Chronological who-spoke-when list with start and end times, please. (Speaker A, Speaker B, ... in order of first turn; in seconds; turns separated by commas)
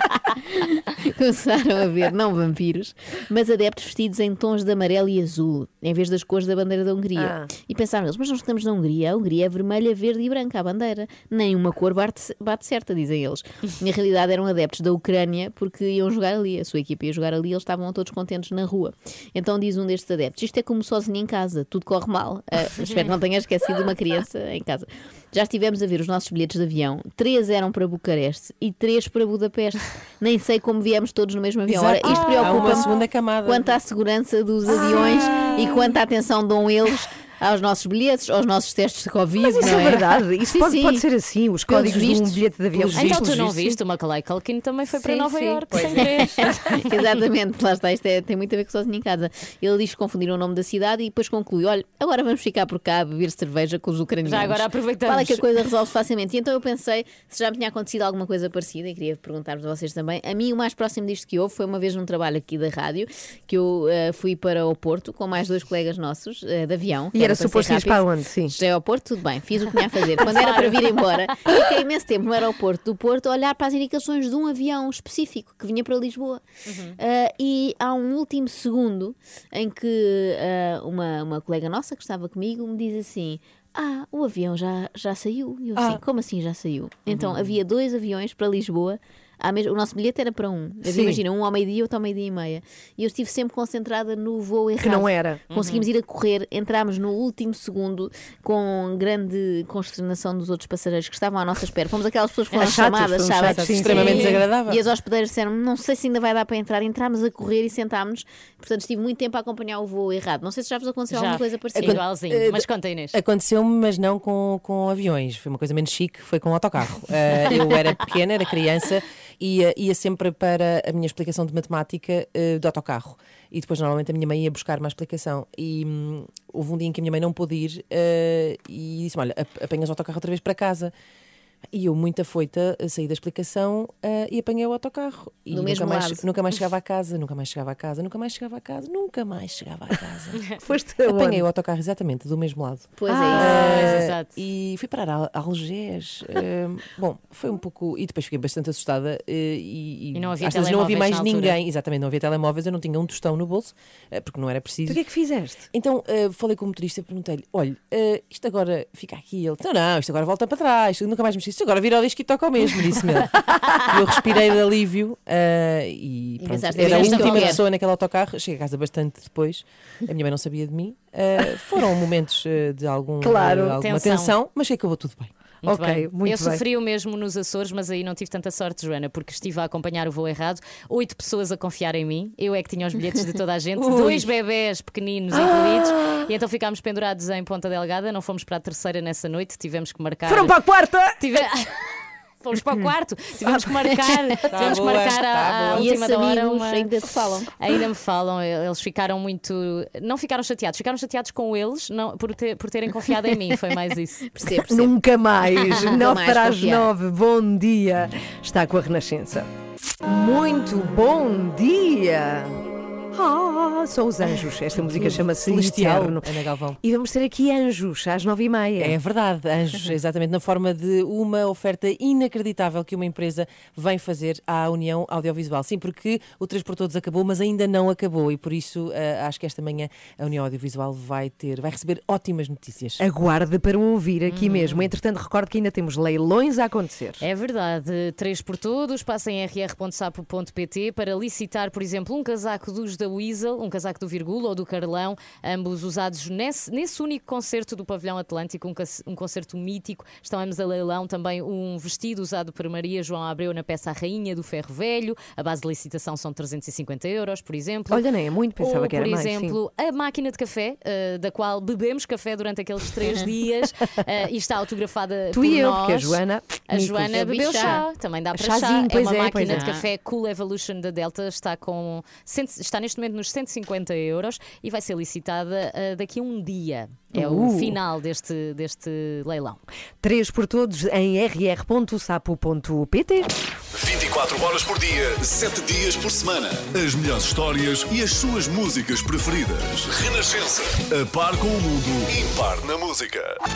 Speaker A: 0.4-32.9, Speaker B: 7.2-7.5, Speaker C: 31.7-33.8, Speaker B: 32.1-32.5, Speaker A: 33.4-41.0, Speaker C: 34.7-35.9, Speaker B: 39.4-43.8, Speaker A: 41.7-42.4, Speaker D: 42.9-46.9, Speaker B: 44.9-46.5, Speaker A: 46.8-76.4, Speaker D: 54.2-55.5, Speaker B: 67.1-68.5, Speaker D: 70.2-71.3, Speaker D: 76.7-77.0, Speaker A: 77.0-112.0, Speaker D: 87.1-87.5, Speaker B: 90.8-91.2, Speaker B: 94.8-95.4, Speaker D: 95.5-95.9, Speaker B: 102.6-104.4, Speaker C: 103.4-104.8, Speaker D: 103.7-104.5, Speaker D: 111.1-113.2, Speaker C: 111.8-130.9, Speaker C: 131.7-140.4, Speaker A: 135.5-136.2, Speaker B: 140.6-141.4, Speaker C: 141.0-155.0, Speaker A: 142.9-143.7, Speaker B: 143.1-143.8, Speaker D: 143.3-144.3, Speaker D: 150.1-151.6, Speaker B: 154.8-155.7, Speaker C: 155.7-163.3, Speaker C: 163.9-175.3, Speaker A: 166.4-167.6, Speaker D: 166.8-167.6, Speaker B: 173.2-173.8, Speaker D: 173.7-174.3, Speaker D: 175.6-190.6, Speaker B: 175.6-176.6, Speaker C: 183.8-184.2, Speaker B: 185.3-186.2, Speaker B: 190.2-191.2, Speaker D: 191.2-191.7, Speaker D: 192.4-196.9, Speaker B: 193.4-194.7, Speaker C: 194.5-195.9, Speaker A: 195.8-197.5, Speaker D: 197.6-204.3, Speaker A: 204.3-204.9, Speaker B: 204.7-209.5, Speaker A: 205.6-206.9, Speaker B: 210.0-212.6, Speaker B: 213.1-216.3, Speaker C: 214.8-216.8, Speaker B: 216.8-219.0, Speaker C: 218.8-233.0, Speaker B: 233.0-237.2, Speaker D: 234.3-234.9, Speaker D: 237.2-258.1, Speaker B: 257.9-259.6, Speaker D: 258.6-279.6, Speaker B: 265.3-267.8, Speaker A: 267.1-267.9, Speaker B: 268.3-269.7, Speaker A: 269.4-269.8, Speaker B: 277.1-277.8, Speaker B: 280.0-283.3, Speaker E: 283.7-293.3